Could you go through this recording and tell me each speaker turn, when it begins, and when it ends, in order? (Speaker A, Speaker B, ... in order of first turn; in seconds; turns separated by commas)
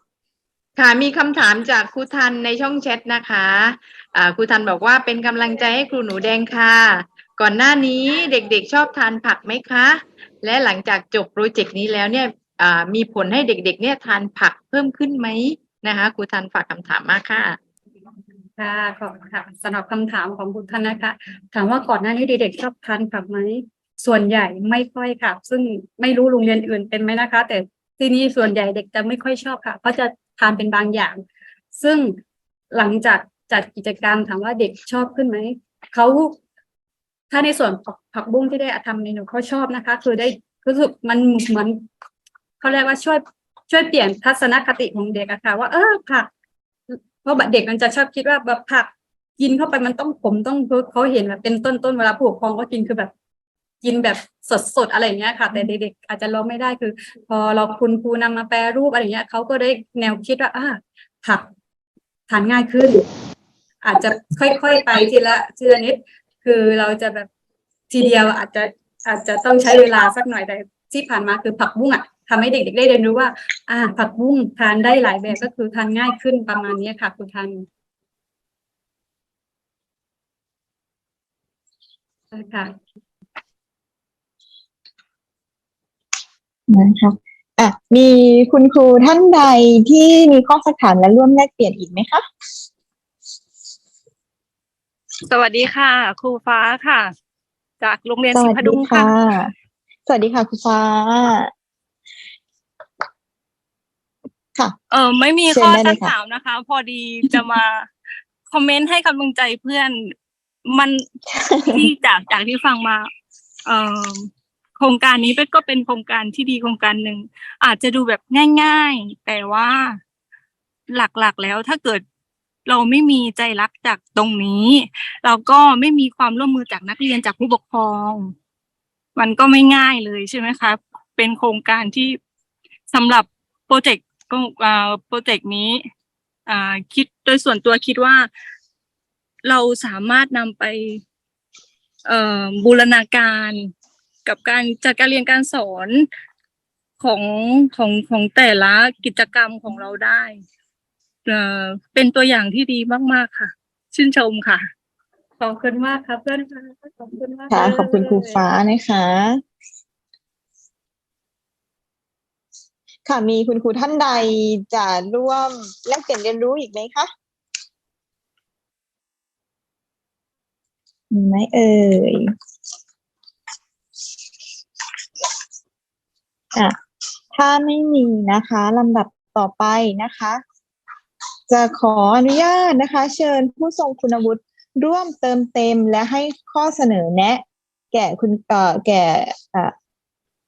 Speaker A: 0.8-17.6, Speaker B: 18.6-31.2, Speaker B: 31.8-32.2, Speaker B: 32.7-36.4, Speaker B: 37.3-41.9, Speaker B: 42.6-46.3, Speaker B: 46.9-53.1, Speaker B: 53.8-61.5, Speaker B: 62.3-63.0, Speaker B: 63.8-67.3, Speaker B: 67.9-77.7, Speaker B: 82.3-82.8, Speaker C: 86.7-92.2, Speaker D: 95.3-97.2, Speaker D: 97.8-99.1, Speaker C: 98.3-99.5, Speaker C: 100.1-101.5, Speaker D: 104.9-107.9, Speaker C: 105.5-106.1, Speaker D: 108.5-110.1, Speaker D: 110.7-111.0, Speaker C: 111.4-111.9, Speaker D: 111.7-113.1, Speaker D: 113.7-120.0, Speaker D: 120.9-122.0, Speaker D: 122.7-128.3, Speaker D: 129.2-132.2, Speaker D: 132.9-135.8, Speaker D: 136.5-138.3, Speaker D: 139.4-141.0, Speaker D: 142.1-143.7, Speaker D: 144.2-146.1, Speaker D: 147.0-150.4, Speaker D: 151.3-154.7, Speaker B: 155.4-158.4, Speaker C: 157.5-159.4, Speaker C: 163.1-167.1, Speaker C: 171.1-172.3, Speaker C: 177.3-180.4, Speaker C: 181.5-189.7